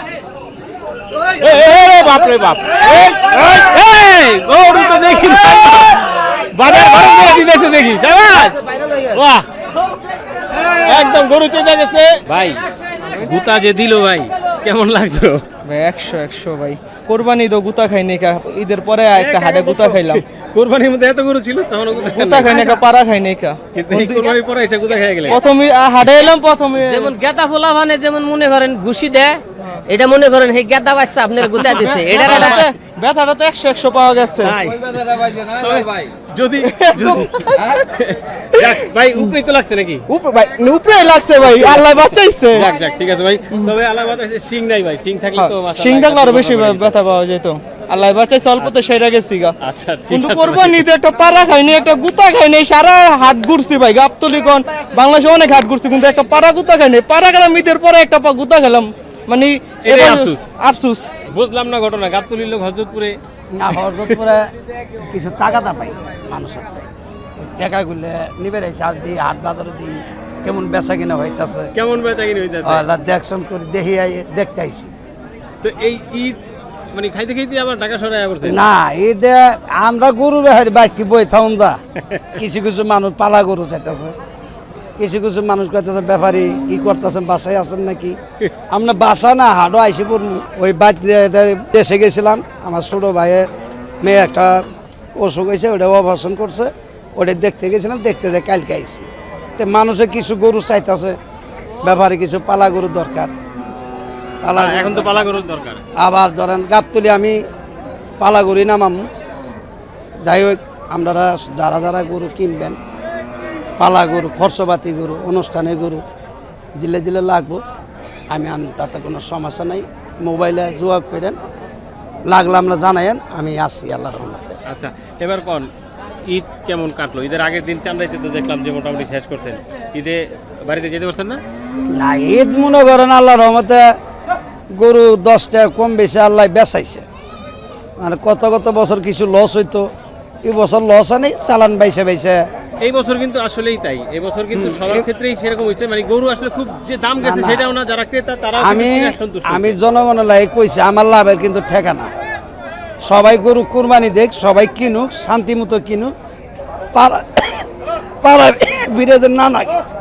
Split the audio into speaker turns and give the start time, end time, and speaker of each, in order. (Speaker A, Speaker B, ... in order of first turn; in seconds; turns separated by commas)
Speaker A: 1.4-9.4, Speaker A: 10.8-12.6, Speaker A: 13.1-15.4, Speaker B: 15.7-20.2, Speaker A: 19.1-22.8, Speaker B: 22.0-24.3, Speaker A: 23.7-25.4, Speaker B: 25.3-27.1, Speaker C: 26.7-32.6, Speaker B: 31.5-34.6, Speaker A: 32.2-32.6, Speaker C: 34.4-34.9, Speaker A: 35.2-40.0, Speaker B: 36.7-37.8, Speaker B: 38.5-39.2, Speaker B: 40.1-42.7, Speaker A: 42.5-47.0, Speaker B: 45.4-49.6, Speaker A: 48.6-48.8, Speaker A: 49.6-50.9, Speaker B: 50.1-61.1, Speaker A: 59.8-60.5, Speaker A: 61.3-63.2, Speaker D: 63.5-64.5, Speaker D: 65.0-71.7, Speaker A: 71.8-72.8, Speaker D: 72.6-74.9, Speaker A: 75.6-76.4, Speaker A: 76.9-78.7, Speaker D: 78.4-81.8, Speaker D: 82.4-84.1, Speaker D: 85.0-88.2, Speaker D: 88.7-93.5, Speaker D: 94.0-94.6, Speaker D: 95.2-99.1, Speaker D: 99.6-101.2, Speaker D: 101.8-103.3, Speaker D: 104.4-105.1, Speaker A: 104.6-105.8, Speaker D: 106.0-107.4, Speaker D: 108.2-109.1, Speaker D: 110.2-112.8, Speaker D: 113.8-116.0, Speaker D: 116.8-117.6, Speaker D: 118.3-121.4, Speaker D: 122.3-124.6, Speaker A: 124.7-125.7, Speaker A: 126.3-131.4, Speaker D: 131.9-133.9, Speaker D: 134.7-137.0, Speaker D: 138.0-139.9, Speaker D: 140.4-142.4, Speaker A: 142.8-149.8, Speaker D: 144.5-145.1, Speaker D: 147.2-147.7, Speaker D: 148.6-152.1, Speaker D: 153.0-156.1, Speaker D: 156.9-157.7, Speaker D: 158.2-159.8